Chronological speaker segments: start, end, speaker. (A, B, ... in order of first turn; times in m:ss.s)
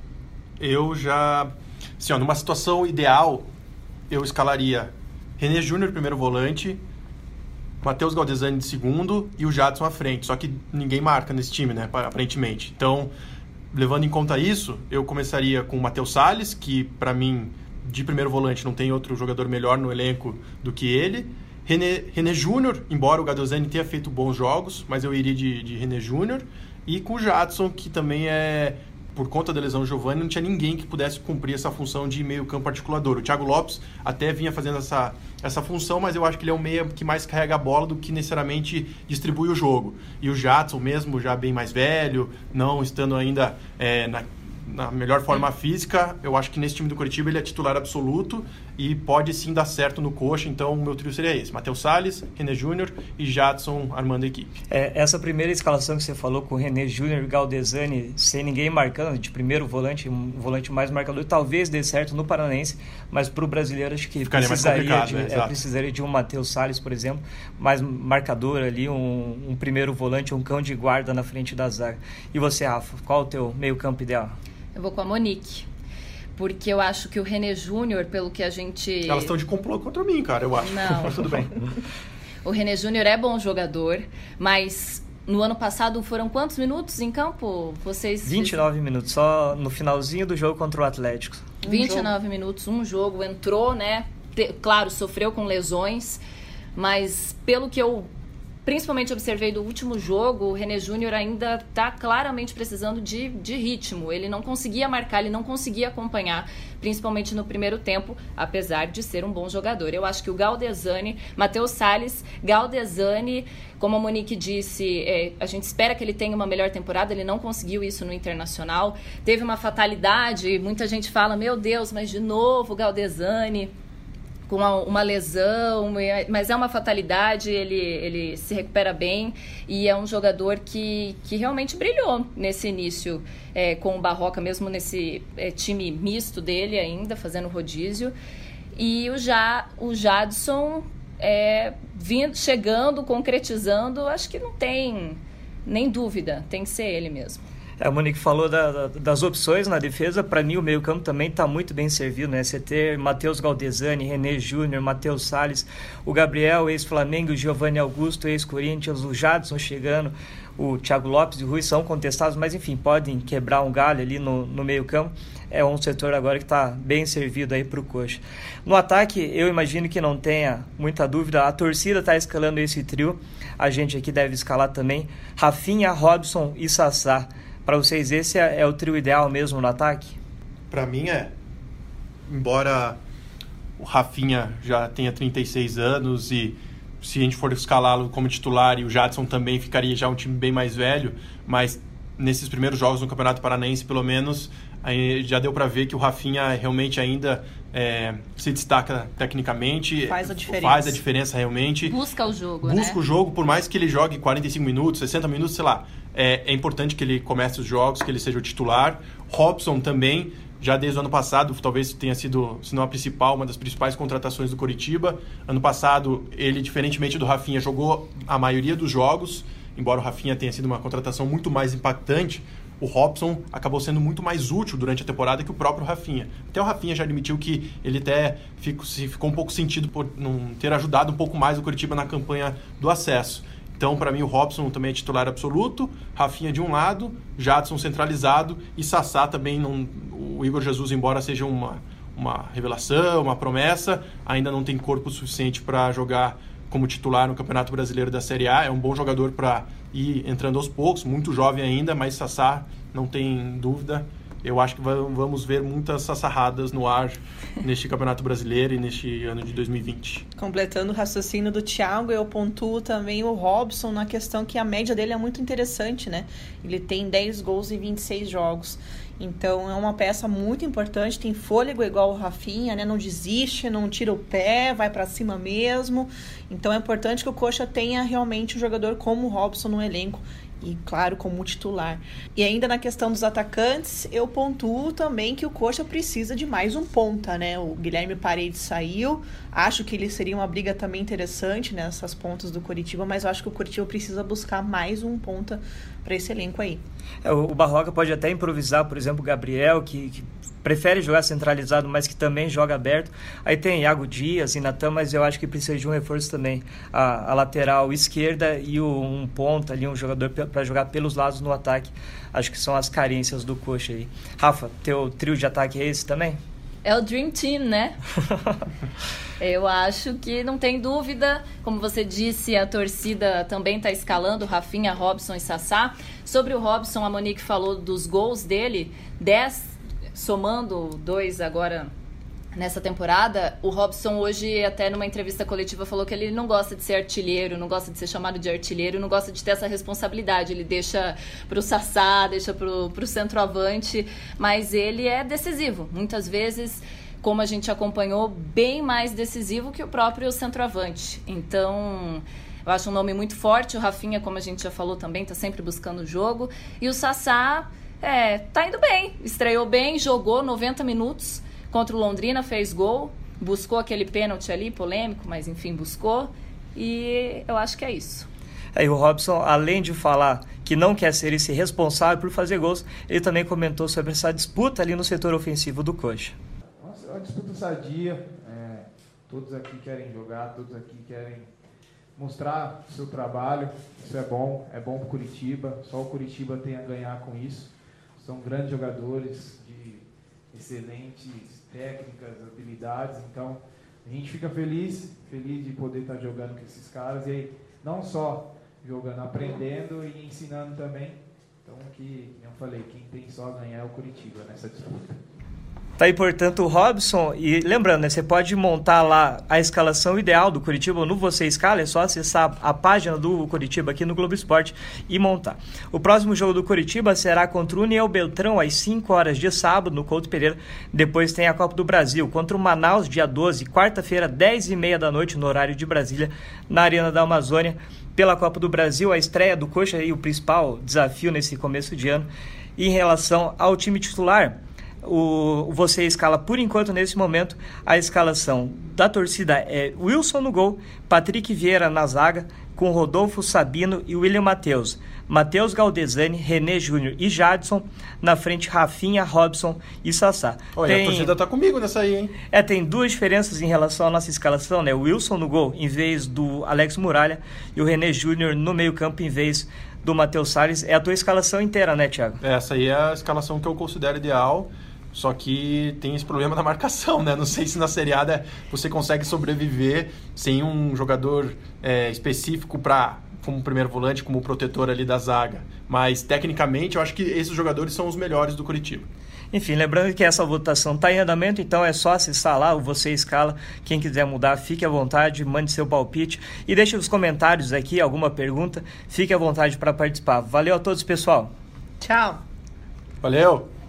0:00.6-0:03.5 A
0:04.1-0:06.8 A
0:07.8-0:13.1 A
0:13.7-0:54.6 A
0:54.7-1:14.3 B
1:04.2-1:05.6 A
1:14.7-1:15.7 C
1:16.4-1:19.3 C
1:19.1-1:21.6 A
1:20.6-1:21.4 C
1:22.4-1:28.6 C
1:28.2-1:31.4 B
1:31.6-1:32.1 D
1:31.6-1:36.2 C
1:36.7-1:38.1 C
1:38.6-2:03.7 C
2:04.5-2:18.1 C
2:18.7-2:27.4 C
2:27.8-3:00.2 B
3:00.7-3:01.3 A
3:02.3-3:03.0 A
3:03.8-3:22.0 A
3:20.1-3:21.0 D
3:21.8-3:23.0 C
3:22.6-4:20.2 A
4:20.4-4:56.8 D
4:57.2-5:16.4 B
5:16.8-5:18.0 C
5:19.4-5:31.9 C
5:32.5-6:08.3 C
6:08.7-6:16.4 B
6:16.8-6:21.5 E
6:22.2-6:45.2 E
6:46.0-7:31.3 B
7:30.8-7:32.3 A
7:32.5-7:42.4 B
7:42.4-7:59.1 A
7:59.5-8:11.5 B
8:12.0-8:12.4 D
8:13.2-8:13.7 A